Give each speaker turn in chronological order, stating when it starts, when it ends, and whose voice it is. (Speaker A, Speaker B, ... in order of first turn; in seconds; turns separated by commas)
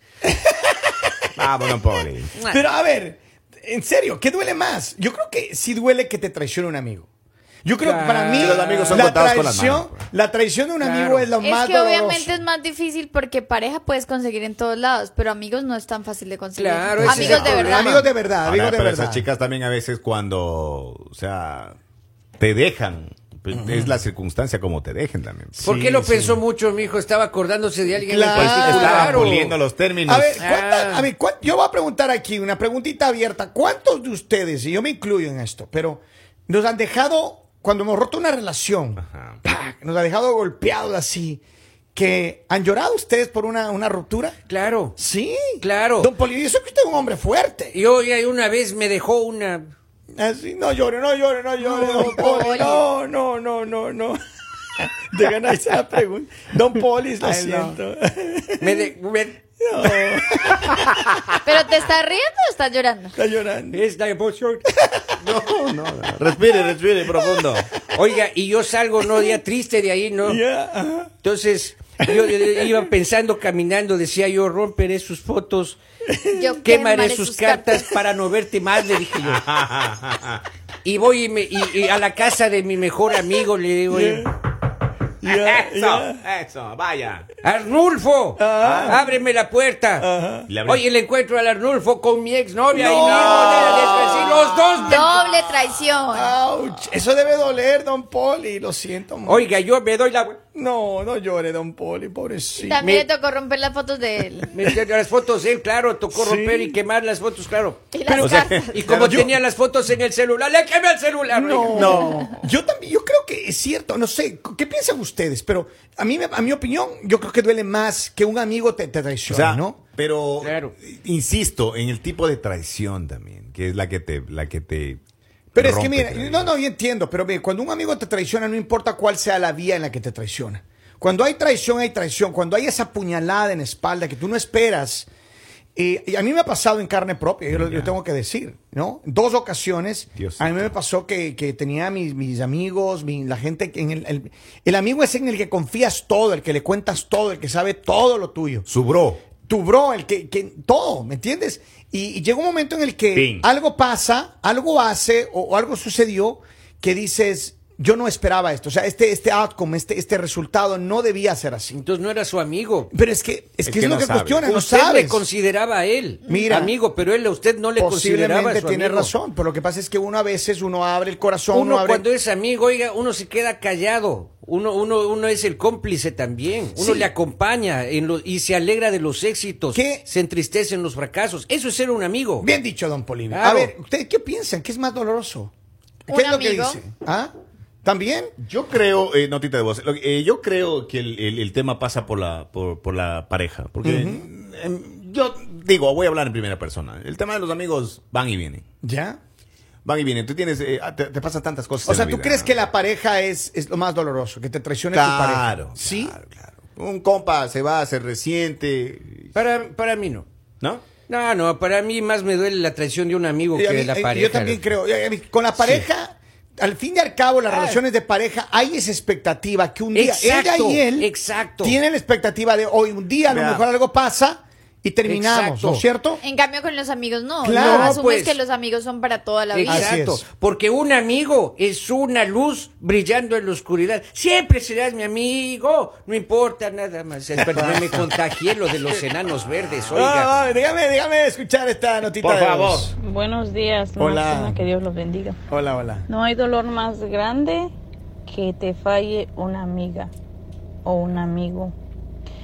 Speaker A: 0.2-0.9, Speaker B: 1.4-2.3, Speaker A: 2.4-7.1, Speaker A: 7.6-12.4, Speaker C: 7.8-9.1, Speaker B: 8.3-10.0, Speaker C: 10.8-11.3, Speaker D: 11.4-18.0, Speaker C: 16.6-18.1, Speaker A: 17.0-19.3, Speaker B: 18.4-21.8, Speaker B: 22.4-25.6, Speaker A: 23.5-24.0, Speaker A: 25.5-26.4, Speaker C: 25.6-29.6, Speaker A: 28.0-29.4, Speaker B: 28.3-30.4, Speaker A: 30.1-41.4, Speaker C: 30.4-31.1, Speaker B: 39.0-39.4, Speaker A: 41.9-44.4, Speaker C: 44.5-45.0, Speaker A: 45.0-47.8, Speaker C: 45.6-46.1, Speaker C: 47.7-49.7, Speaker A: 50.1-54.2, Speaker D: 51.6-52.8, Speaker A: 54.8-58.9, Speaker B: 57.2-57.7, Speaker C: 58.6-59.4, Speaker A: 59.6-61.2, Speaker B: 60.4-61.4, Speaker D: 61.4-63.1, Speaker A: 63.2-63.8, Speaker C: 63.7-64.7, Speaker A: 64.7-65.0, Speaker B: 65.2-67.7, Speaker A: 67.1-67.9, Speaker C: 67.9-70.4, Speaker A: 70.2-71.1, Speaker C: 71.2-75.8, Speaker A: 72.0-72.8, Speaker A: 76.1-76.4, Speaker D: 76.3-77.9, Speaker C: 76.6-79.4, Speaker B: 79.2-80.4, Speaker C: 80.8-84.3, Speaker A: 83.9-84.3, Speaker A: 85.2-86.2, Speaker B: 85.2-87.3, Speaker C: 87.4-90.1, Speaker A: 88.4-89.1, Speaker B: 88.6-89.0, Speaker A: 90.0-90.5, Speaker B: 90.5-90.8, Speaker C: 90.6-95.2, Speaker A: 92.7-94.2, Speaker B: 93.2-94.6, Speaker D: 94.8-96.3, Speaker A: 96.1-99.5, Speaker C: 99.2-100.4, Speaker A: 100.5-102.8, Speaker D: 102.6-104.5, Speaker C: 104.5-112.0, Speaker A: 106.1-106.8, Speaker D: 107.9-108.9, Speaker B: 108.2-108.7, Speaker A: 108.8-109.4, Speaker A: 111.3-119.8, Speaker B: 111.7-112.2, Speaker D: 111.9-112.3, Speaker B: 119.3-125.0, Speaker C: 120.4-120.7, Speaker B: 125.5-126.5, Speaker A: 125.5-135.1, Speaker A: 135.8-148.7, Speaker B: 137.5-137.9, Speaker B: 140.2-140.7, Speaker B: 148.7-149.2, Speaker A: 149.3-161.8, Speaker B: 153.1-153.4, Speaker C: 161.7-162.9, Speaker A: 162.9-165.2, Speaker B: 163.6-164.5, Speaker C: 164.4-169.1, Speaker A: 166.3-166.8, Speaker A: 167.8-172.1, Speaker C: 171.5-182.6, Speaker A: 176.8-177.1, Speaker A: 179.7-180.1, Speaker A: 182.4-185.5, Speaker C: 183.3-183.7, Speaker A: 186.1-187.3, Speaker D: 186.1-186.8, Speaker A: 187.8-188.3, Speaker B: 188.4-198.6, Speaker A: 193.8-194.3, Speaker A: 198.8-199.2, Speaker B: 199.8-202.5, Speaker A: 201.8-206.2, Speaker B: 204.9-209.3, Speaker C: 209.3-210.2, Speaker C: 211.1-214.6, Speaker A: 213.5-226.2, Speaker B: 215.6-215.8, Speaker C: 217.5-217.8, Speaker C: 219.9-221.8, Speaker B: 223.3-223.7, Speaker C: 225.0-225.8, Speaker D: 226.2-229.9, Speaker A: 227.4-228.0, Speaker C: 227.5-228.4, Speaker C: 229.5-240.3, Speaker A: 229.7-230.2, Speaker A: 237.5-238.1, Speaker A: 239.9-242.9, Speaker B: 242.2-242.9, Speaker E: 243.0-245.4, Speaker A: 244.0-244.7, Speaker A: 245.5-246.1, Speaker E: 246.1-247.7, Speaker E: 248.3-250.1, Speaker E: 250.8-251.7